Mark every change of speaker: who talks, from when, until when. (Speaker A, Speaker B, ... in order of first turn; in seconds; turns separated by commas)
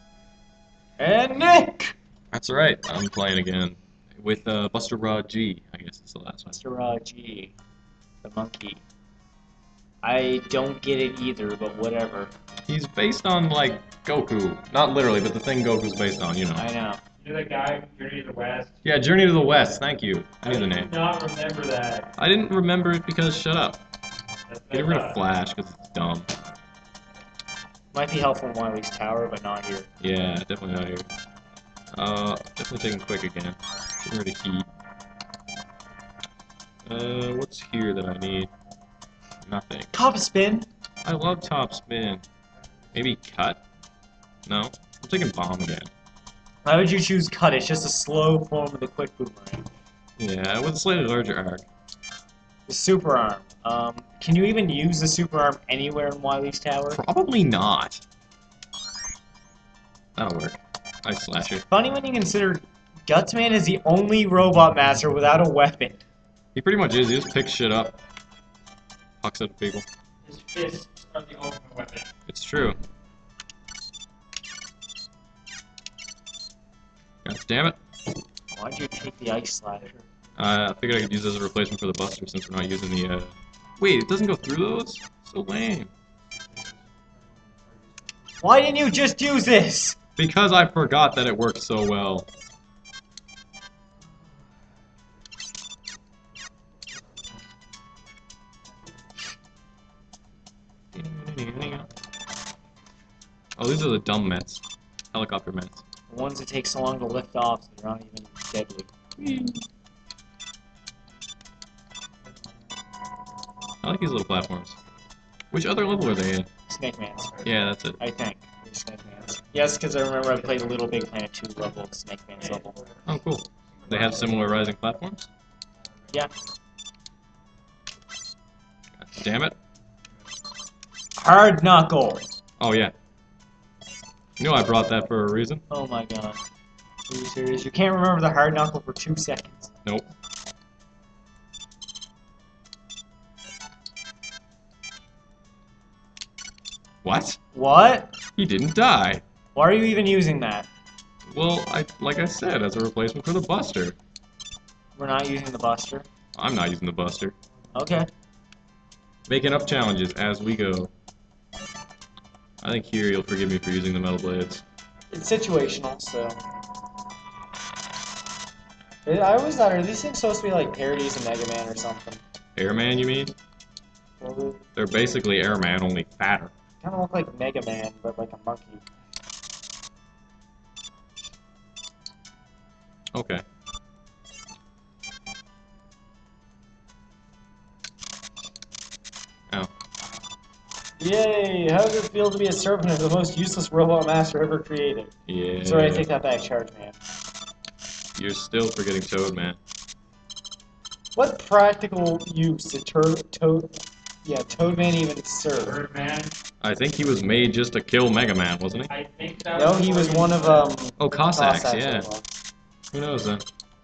Speaker A: 1.0-1.9, Speaker B: 2.3-6.6, Speaker A: 6.5-7.5, Speaker A: 8.2-8.8, Speaker A: 10.0-12.3, Speaker B: 12.7-16.7, Speaker A: 16.6-17.0, Speaker C: 17.2-18.8, Speaker B: 18.8-20.9, Speaker C: 20.4-22.1, Speaker B: 22.2-23.8, Speaker C: 24.5-25.2, Speaker B: 24.7-26.3, Speaker A: 27.9-29.9, Speaker B: 30.0-31.1, Speaker B: 31.9-34.7, Speaker B: 36.9-38.5, Speaker B: 39.4-39.9, Speaker A: 39.9-40.7, Speaker B: 41.0-42.2, Speaker B: 42.9-43.6, Speaker B: 44.5-45.9, Speaker A: 46.6-49.7, Speaker B: 50.2-51.7, Speaker A: 52.7-57.0, Speaker B: 56.9-58.0, Speaker B: 60.2-61.6, Speaker A: 61.5-66.0, Speaker B: 66.5-68.0, Speaker B: 69.2-69.9, Speaker C: 70.2-72.1, Speaker B: 72.3-72.8, Speaker B: 77.2-77.8, Speaker A: 78.5-80.0, Speaker B: 80.4-85.9, Speaker C: 87.3-88.4, Speaker A: 88.4-90.0, Speaker B: 90.2-92.3, Speaker B: 100.9-101.9, Speaker B: 103.6-105.8, Speaker A: 106.1-108.9, Speaker B: 109.2-109.7, Speaker B: 113.8-114.8, Speaker B: 115.5-116.5, Speaker A: 116.7-117.4, Speaker B: 117.4-118.0, Speaker A: 118.0-122.8, Speaker C: 122.4-122.8, Speaker B: 123.1-125.3, Speaker C: 123.8-124.4, Speaker B: 129.1-129.6, Speaker A: 131.2-132.3, Speaker B: 132.6-132.9, Speaker B: 134.4-135.6, Speaker A: 135.7-136.4, Speaker A: 137.1-139.7, Speaker B: 147.0-147.4, Speaker A: 147.5-148.1, Speaker B: 148.4-149.2, Speaker A: 149.6-150.7, Speaker B: 151.3-154.0, Speaker A: 155.0-156.1, Speaker B: 156.4-157.3, Speaker A: 157.7-158.1, Speaker B: 159.3-160.9, Speaker B: 162.6-164.6, Speaker A: 165.1-166.4, Speaker A: 169.1-172.2, Speaker B: 172.6-173.3, Speaker A: 174.2-174.6, Speaker B: 174.8-176.5, Speaker A: 176.8-178.8, Speaker B: 183.1-183.4, Speaker A: 191.0-195.1, Speaker B: 195.3-196.1, Speaker A: 195.6-197.0, Speaker B: 198.2-199.6, Speaker A: 201.2-205.8, Speaker C: 205.6-206.3, Speaker B: 206.6-208.9, Speaker C: 208.9-210.7, Speaker A: 209.5-212.3, Speaker B: 211.0-212.1, Speaker B: 212.9-213.4